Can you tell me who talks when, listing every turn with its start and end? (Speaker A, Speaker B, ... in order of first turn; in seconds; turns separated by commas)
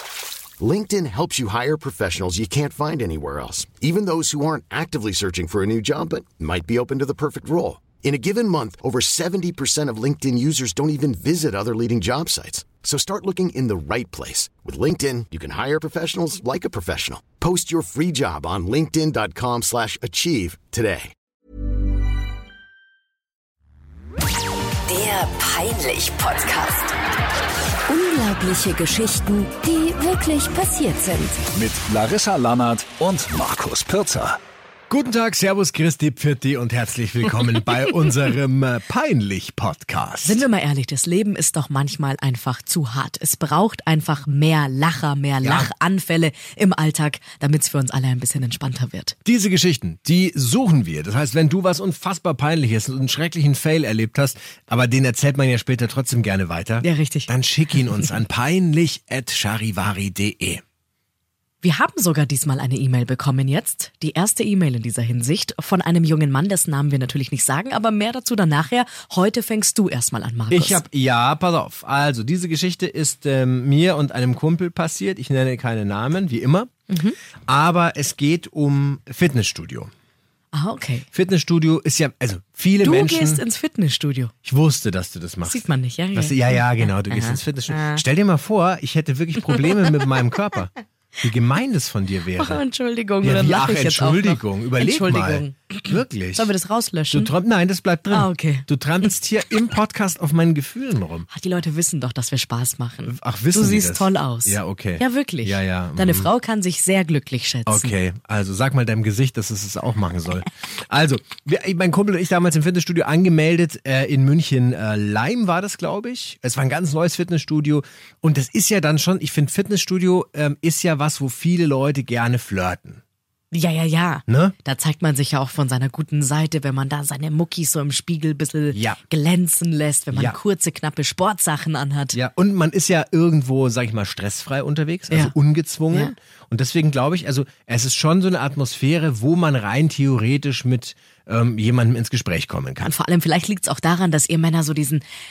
Speaker A: 0.6-21.1, Speaker B: 24.9-26.9, Speaker B: 27.9-31.4, Speaker C: 31.5-34.4, Speaker D: 34.9-40.4, Speaker E: 40.2-49.1, Speaker D: 45.4-45.7, Speaker D: 49.2-60.6, Speaker E: 56.8-58.2, Speaker E: 61.6-70.8, Speaker D: 70.5-76.7, Speaker E: 76.9-77.2, Speaker D: 77.5-79.9, Speaker E: 80.5-81.1, Speaker D: 81.1-83.4, Speaker E: 82.8-84.3, Speaker D: 84.4-92.6, Speaker E: 85.4-88.0, Speaker E: 89.5-90.1, Speaker E: 92.4-97.3, Speaker D: 93.2-96.5, Speaker D: 97.1-101.3, Speaker E: 98.1-99.1, Speaker E: 101.3-108.0, Speaker D: 103.0-106.3, Speaker D: 107.7-123.0, Speaker E: 123.5-132.2, Speaker D: 124.3-124.5, Speaker D: 128.7-129.0, Speaker D: 130.1-130.4, Speaker D: 132.1-142.9, Speaker E: 135.1-135.3, Speaker E: 135.9-136.1, Speaker E: 142.8-145.0